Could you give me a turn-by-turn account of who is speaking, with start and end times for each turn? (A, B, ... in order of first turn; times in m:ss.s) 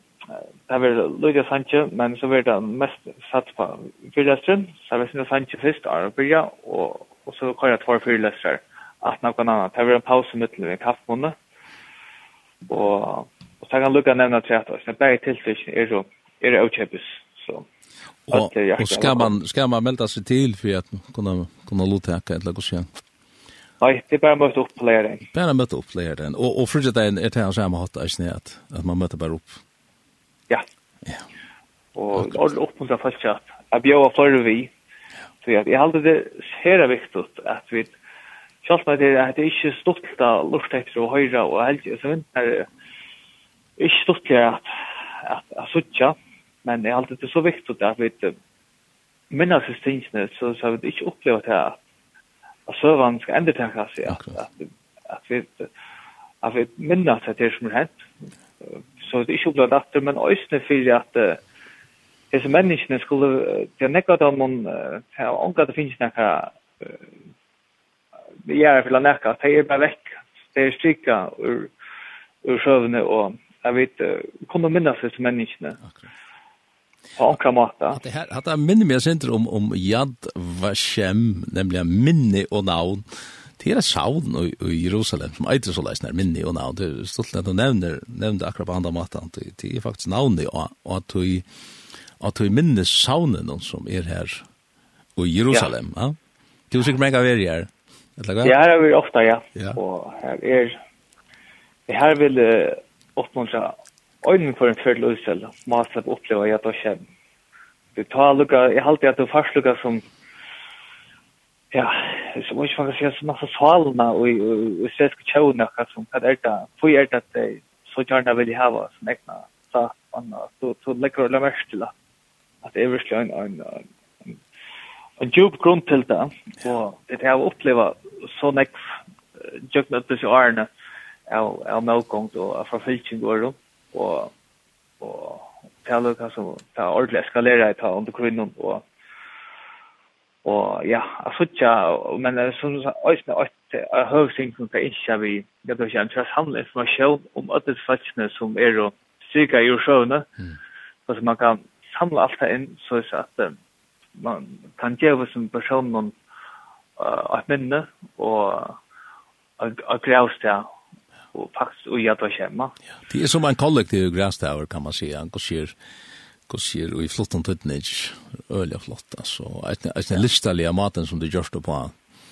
0:00.3-0:11.3 A
0:12.6-0:17.6 A
0:18.3-0:22.9 B
0:18.3-0:19.3 A
0:23.8-0:25.2 A
0:25.3-0:29.6 B
0:31.9-0:34.7 A
0:35.4-0:37.9 A
0:38.6-0:42.7 A
0:43.8-0:48.4 A
0:49.3-0:51.8 A
0:52.7-0:55.7 A
0:56.4-0:58.0 A
0:59.0-1:01.4 A
1:02.3-1:07.0 A
1:08.4-1:11.7 A
1:12.4-1:15.8 A
1:17.2-1:18.0 A
1:17.9-1:23.0 B
1:23.6-1:31.4 B
1:32.2-1:34.4 B
1:35.2-1:36.2 B
1:36.7-1:38.6 B
1:38.4-1:40.8 A
1:41.9-1:47.0 A
1:48.0-1:50.0 A
1:51.7-2:01.9 A
2:02.6-2:04.4 A
2:05.2-2:08.8 A
2:09.4-2:10.7 A
2:11.3-2:14.3 A
2:15.0-2:18.8 A
2:20.4-2:30.3 A
2:31.1-2:33.6 A
2:34.2-2:36.1 A
2:37.0-2:38.8 A
2:39.6-2:40.6 A
2:41.3-2:42.7 A
2:43.1-2:45.8 B
2:46.5-2:51.9 B